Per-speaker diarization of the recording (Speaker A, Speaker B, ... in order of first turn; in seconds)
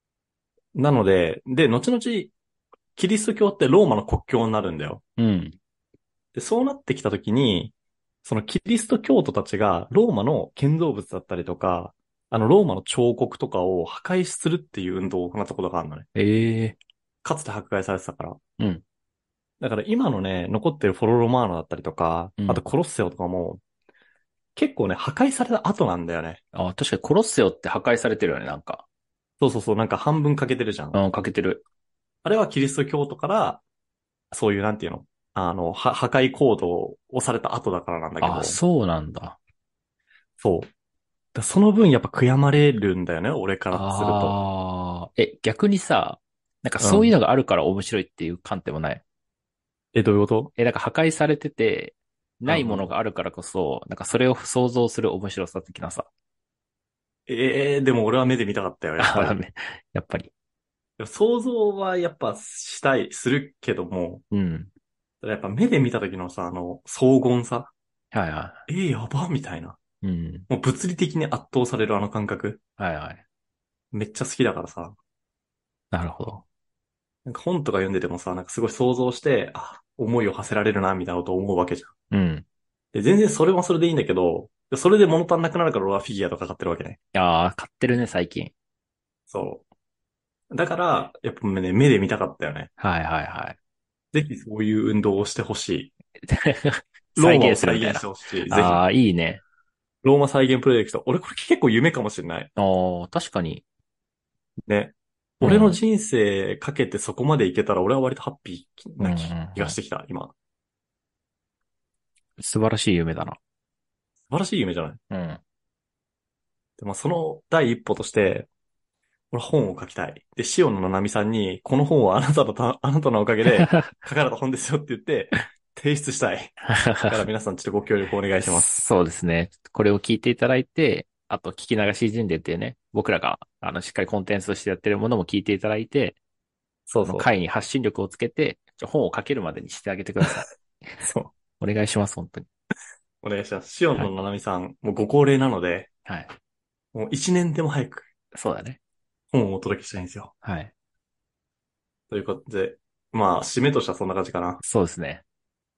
Speaker A: 0.7-2.3, 3.0-5.0, 6.3-16.1, 17.2-18.4, 19.6-23.6, 24.6-26.4, 29.4-31.0, 32.2-33.6, 34.3-38.6, 40.4-40.7, 41.3-44.4, 46.8-47.1, 49.9-50.5, 52.5-52.9, 57.3-59.4, 61.0-64.2, 65.2-67.7, 68.7-69.8, 70.5-72.6, 73.9-75.0, 77.2-81.9, 82.9-87.0, 89.3-89.6, 90.5-92.7, 94.1-95.9, 97.1-98.8, 100.0-102.5, 104.7-110.3, 114.3-115.0, 116.8-118.5, 119.3-128.8, 136.9-137.3, 141.0-141.3, 143.2-145.9, 146.9-148.1, 149.3-150.3, 152.1-154.6
Speaker B: 5.2-5.5, 16.1-16.8, 26.5-28.8, 30.9-31.6, 38.2-39.4, 43.7-49.0, 50.6-56.1, 59.0-60.3, 64.3-64.7, 68.1-68.7, 70.0-70.5, 72.8-73.2, 75.9-76.4, 82.1-82.4, 87.1-88.5, 92.8-93.6, 96.3-99.4, 102.6-103.6, 105.4-105.8, 109.0-109.8, 112.4-113.4, 115.1-115.4, 123.5-123.9, 126.7-127.2, 128.4-136.2, 137.0-140.4, 141.6-142.5, 146.1-146.3, 148.3-148.8, 150.4-150.7, 154.6-155.2